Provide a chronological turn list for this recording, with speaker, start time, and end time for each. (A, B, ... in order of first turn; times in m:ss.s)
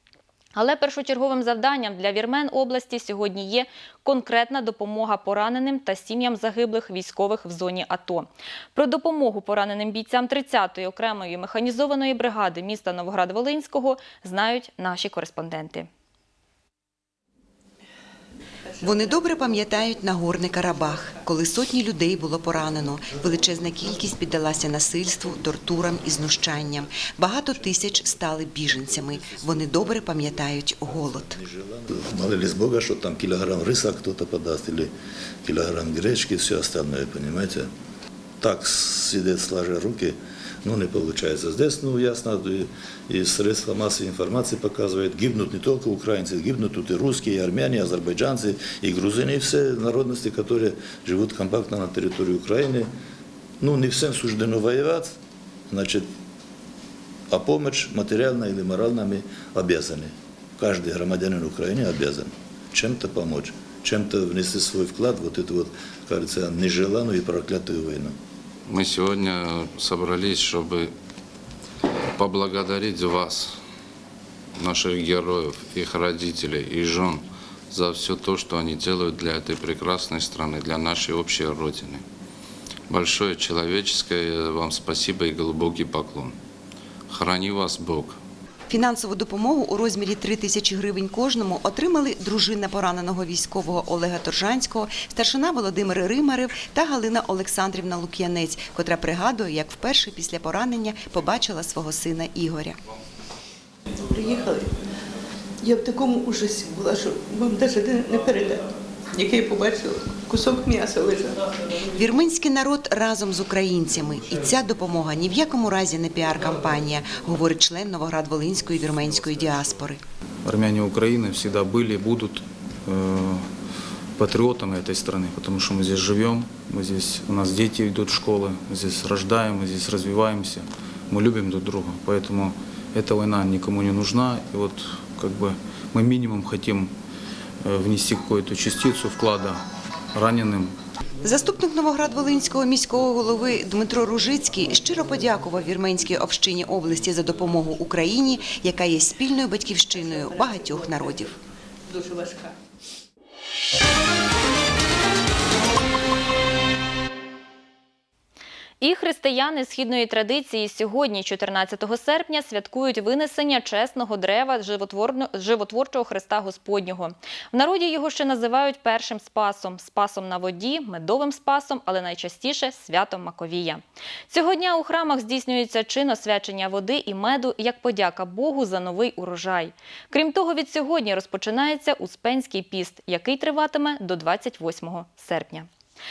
0:00.6-0:15.9 A
0:18.8-0:31.4 B
0:27.6-0:34.9 C
0:35.4-0:37.7 C
0:38.4-0:52.9 C
0:53.6-0:55.2 C
0:55.7-0:56.1 C
0:57.3-1:08.2 C
1:08.7-1:10.9 D
1:12.2-1:13.6 D
1:14.6-1:22.0 D
1:22.9-1:26.4 D
1:27.1-1:28.2 D
1:28.7-1:42.8 B
1:44.1-1:44.7 E
1:45.6-1:48.6 E
1:49.2-1:51.4 E
1:51.9-2:00.0 B
2:00.4-2:03.4 F
2:04.2-2:16.9 F
2:17.6-2:19.6 F
2:20.1-2:20.7 F
2:21.2-2:31.4 B
2:30.1-2:31.0 E
2:32.0-2:32.5 E
2:38.8-3:05.7 A